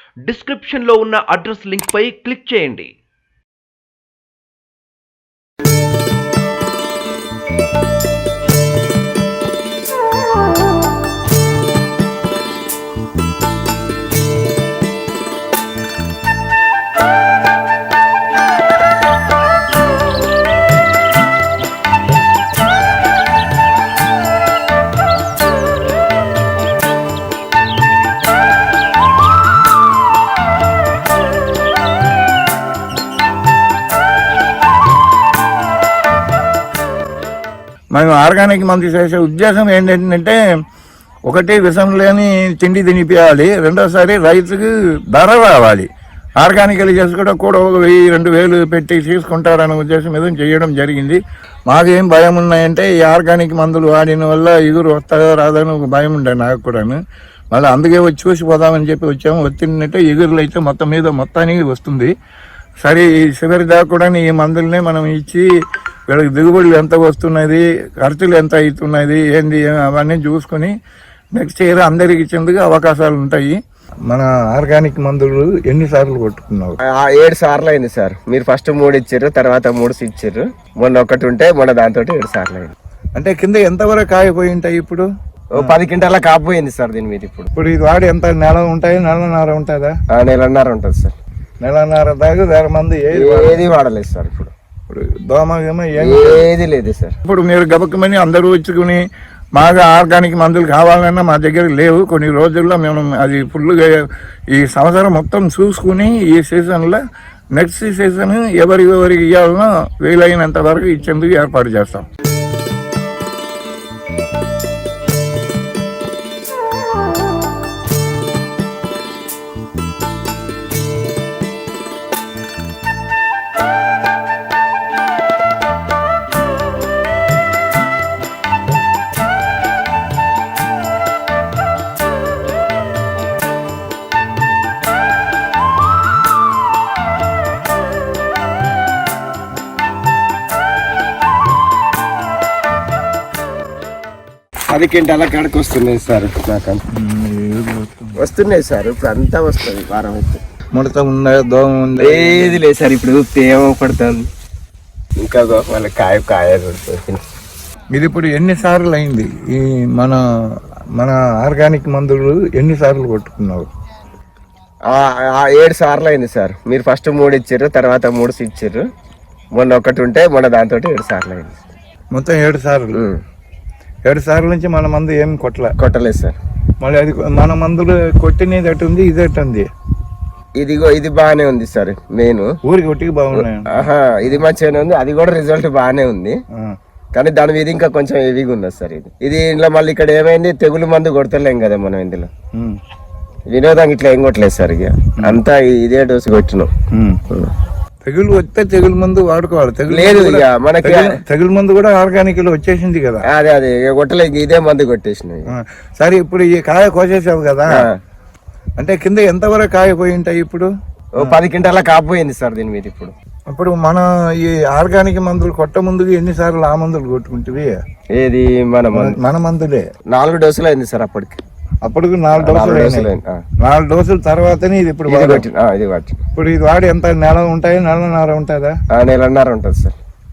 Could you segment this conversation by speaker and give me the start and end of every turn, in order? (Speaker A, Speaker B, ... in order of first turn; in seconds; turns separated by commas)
Speaker A: 0.3-2.9, Speaker B: 37.9-40.4, Speaker B: 41.3-45.9, Speaker B: 46.4-57.0, Speaker B: 57.5-62.1, Speaker B: 62.8-65.4, Speaker B: 66.1-70.7, Speaker B: 71.3-73.5, Speaker B: 74.1-76.8, Speaker C: 76.9-82.7, Speaker B: 83.2-85.1, Speaker C: 85.5-87.5, Speaker B: 87.5-89.9, Speaker C: 90.1-91.1, Speaker B: 91.6-93.7, Speaker C: 93.1-94.5, Speaker B: 94.9-96.5, Speaker C: 96.0-97.1, Speaker B: 97.2-99.0, Speaker B: 99.5-107.0, Speaker B: 107.5-112.0, Speaker C: 144.7-146.8, Speaker B: 146.9-148.2, Speaker C: 148.2-150.4, Speaker B: 150.7-152.6, Speaker C: 152.0-154.3, Speaker C: 155.2-157.2, Speaker B: 157.9-160.2, Speaker B: 161.0-163.7, Speaker C: 164.9-168.8, Speaker C: 169.6-171.6, Speaker B: 172.1-173.0, Speaker C: 172.9-173.2, Speaker B: 174.1-175.7, Speaker C: 175.8-176.4, Speaker B: 176.8-179.7, Speaker C: 180.6-182.5, Speaker B: 182.7-183.9, Speaker C: 183.4-186.3, Speaker C: 187.1-192.3, Speaker C: 193.5-196.7, Speaker B: 196.9-197.2, Speaker B: 198.0-203.2, Speaker C: 199.9-201.1, Speaker C: 203.3-205.5, Speaker B: 205.5-207.9, Speaker B: 208.8-210.7, Speaker C: 211.2-213.1, Speaker B: 213.5-217.8, Speaker C: 218.2-219.2, Speaker B: 218.9-219.8, Speaker C: 220.1-221.4, Speaker B: 221.8-223.1, Speaker C: 222.4-223.4, Speaker B: 223.6-225.4, Speaker C: 225.1-226.2, Speaker B: 226.3-228.7, Speaker C: 228.9-229.9